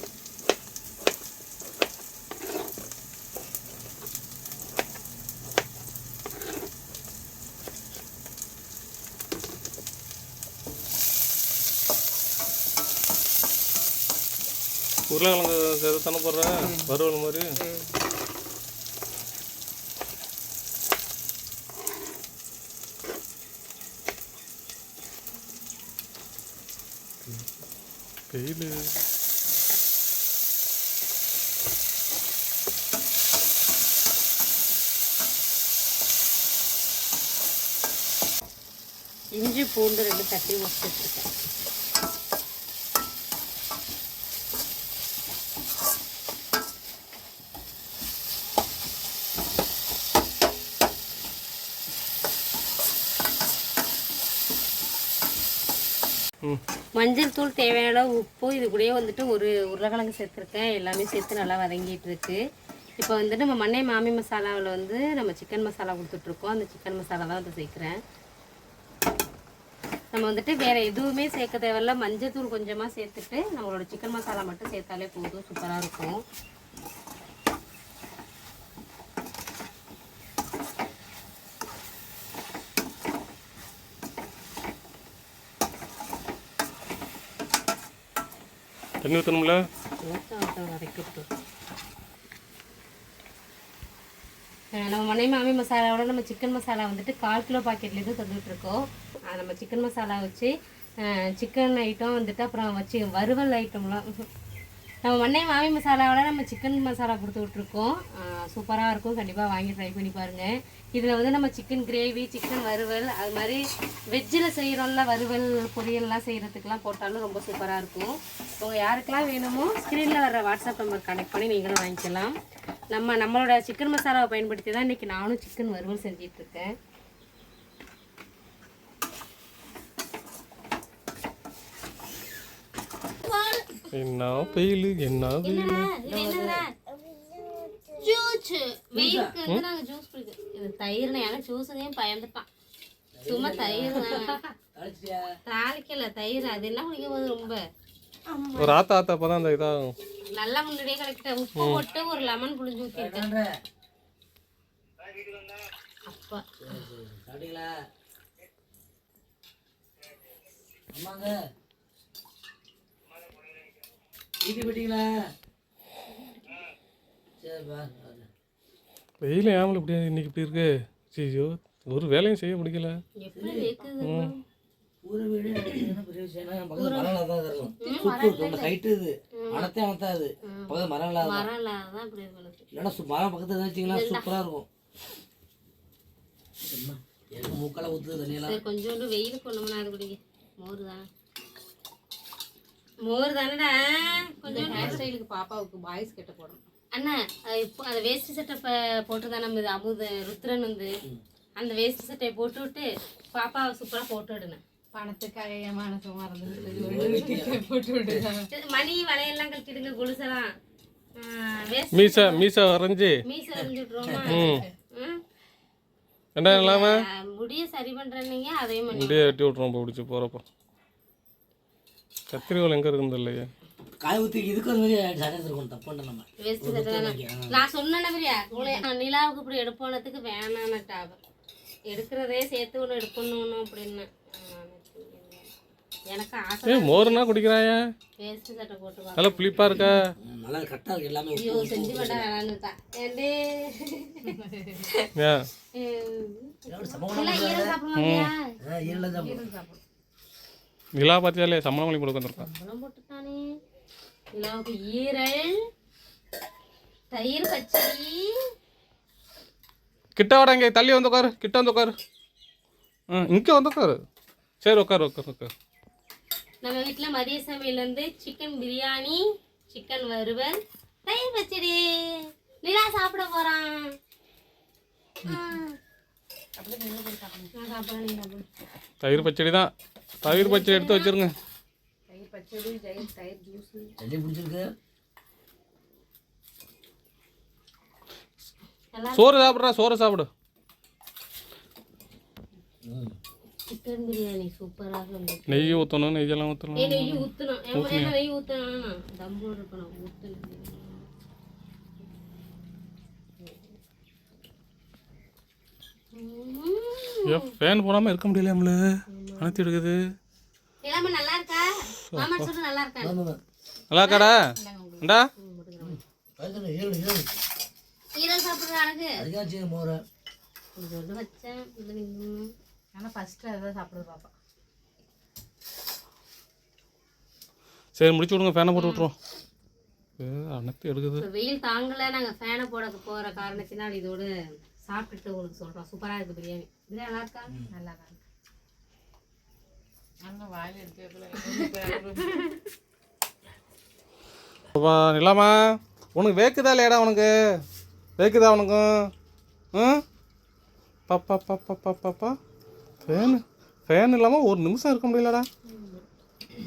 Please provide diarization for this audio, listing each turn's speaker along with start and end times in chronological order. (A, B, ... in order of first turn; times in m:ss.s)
0:15.1-0:17.5 A
0:28.3-0:28.7 A
0:39.4-0:41.3 B
0:57.0-1:02.4 B
1:03.0-1:08.0 B
1:10.1-1:16.2 B
1:29.0-1:29.6 A
1:30.0-1:31.2 B
1:34.8-1:44.0 B
1:45.0-2:02.3 B
2:02.9-2:06.7 B
2:13.2-2:14.6 B
2:13.9-2:15.9 A
2:15.4-2:16.7 B
2:16.0-2:16.6 C
2:17.9-2:22.5 B
2:18.9-2:19.3 C
2:23.1-2:25.2 C
2:23.2-2:24.4 B
2:25.4-2:27.6 B
2:28.3-2:28.7 B
2:28.6-2:29.9 A
2:30.3-2:33.3 B
2:31.6-2:31.8 A
2:32.9-2:33.5 C
2:36.1-2:36.4 B
2:36.6-2:37.7 C
2:40.9-2:41.3 C
2:44.4-2:45.1 C
2:47.4-2:48.3 C
2:49.2-2:53.0 A
2:53.2-2:54.4 B
2:53.3-2:53.7 C
2:54.0-2:54.3 A
2:55.0-3:01.5 C
2:56.8-2:57.1 B
2:57.8-2:58.8 B
2:59.4-2:59.7 B
3:00.4-3:02.6 B
3:02.7-3:04.7 C
3:03.8-3:04.3 B
3:06.6-3:08.6 C
3:08.4-3:11.0 B
3:13.0-3:15.0 B
3:14.5-3:16.6 D
3:14.5-3:15.0 C
3:16.9-3:20.9 B
3:21.6-3:24.6 B
3:24.9-3:28.5 D
3:26.5-3:27.6 C
3:28.5-3:30.5 B
3:31.2-3:32.4 B
3:31.9-3:33.2 A
3:33.2-3:35.2 B
3:34.3-3:34.6 A
3:34.3-3:34.7 D
3:36.3-3:36.9 A
3:36.4-3:39.4 B
3:38.9-3:40.4 A
3:42.3-3:43.5 A
3:44.0-3:47.6 C
3:46.4-3:51.2 B
3:51.9-3:55.5 B
3:56.1-3:57.4 B
3:56.6-3:57.9 A
3:58.2-3:59.9 B
3:59.2-4:00.0 A
3:59.6-4:02.3 C
4:01.4-4:05.1 B
4:05.1-4:05.4 A
4:05.7-4:08.5 B
4:06.7-4:07.8 C
4:07.9-4:08.3 A
4:08.6-4:09.5 C
4:08.8-4:09.8 D
4:10.9-4:12.5 A
4:12.4-4:13.4 B
4:14.3-4:15.6 B
4:17.1-4:18.4 B
4:20.2-4:21.9 A
4:23.1-4:24.0 A
4:24.6-4:25.5 A
4:26.6-4:33.9 B
4:35.2-4:35.8 B
4:36.6-4:37.5 D
4:37.5-4:38.4 B
4:39.0-4:41.3 A
4:40.2-4:41.2 B
4:42.1-4:43.9 D
4:44.0-4:44.7 C
4:48.9-4:49.6 B
4:49.1-4:50.3 A
4:52.8-4:53.1 C
4:53.7-4:55.8 B
4:55.5-4:58.1 A
4:56.7-5:01.1 B
5:06.1-5:07.5 B
5:07.3-5:10.0 A
5:09.1-5:09.6 B
5:10.8-5:13.2 B
5:12.1-5:12.5 A
5:13.0-5:13.4 C
5:13.9-5:14.4 A
5:14.0-5:14.3 B
5:14.6-5:15.1 D
5:15.4-5:16.0 B
5:15.8-5:17.4 C
5:18.2-5:19.2 B
5:19.2-5:20.0 C
5:20.8-5:22.5 B
5:22.9-5:24.3 D
5:27.9-5:29.1 A
5:28.8-5:29.1 B
5:30.2-5:31.2 A
5:31.2-5:37.5 B
5:37.7-5:38.2 D
5:40.2-5:42.5 D
5:44.7-5:45.6 A
5:46.1-5:47.3 A
5:48.2-5:49.1 A
5:49.7-5:50.0 A
5:51.1-5:52.4 A
5:53.0-5:55.5 A
5:55.7-5:56.0 D